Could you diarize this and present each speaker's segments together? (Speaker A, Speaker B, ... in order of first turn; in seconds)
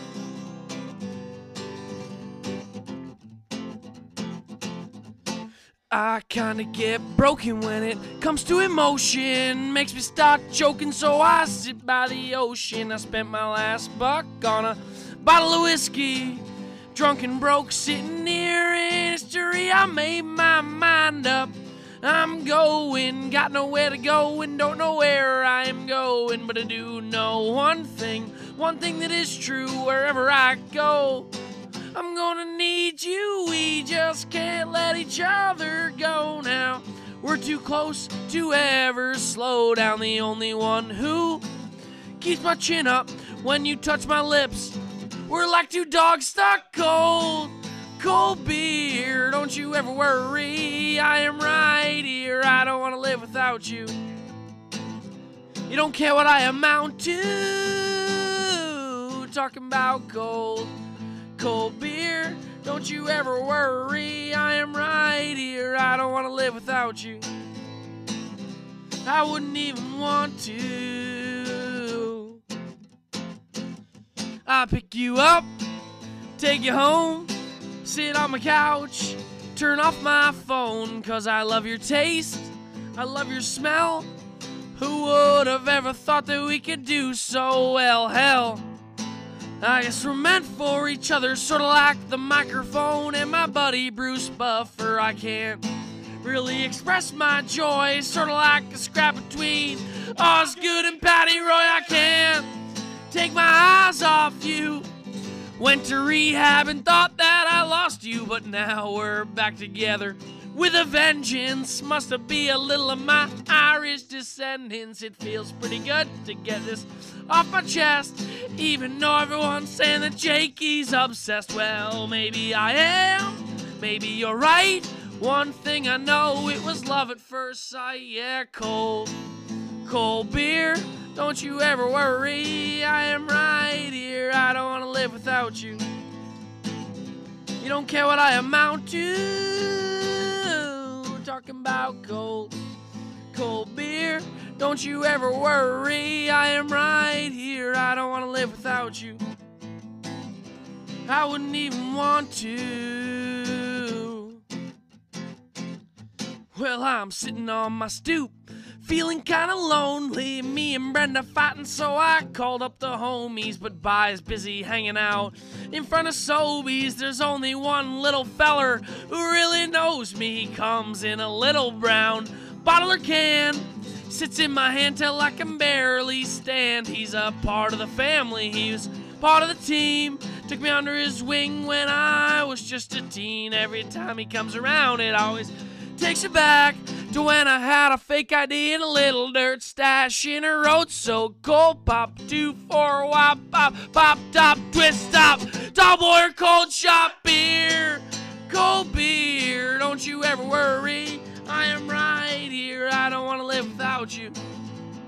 Speaker A: 5.9-16.4, 16.9-21.5, 22.0-31.3, 31.9-41.4, 42.2-44.8, 45.3-53.9, 55.7-60.7, 61.4-67.2, 69.0-72.4, 74.5-75.5, 76.4-77.3, 77.8-84.1, 84.8-88.6, 89.6-95.6, 96.2-102.5, 103.1-104.8, 105.6-129.1, 129.8-135.8, 137.6-142.5, 143.3-149.2, 151.1-154.4, 156.5-204.3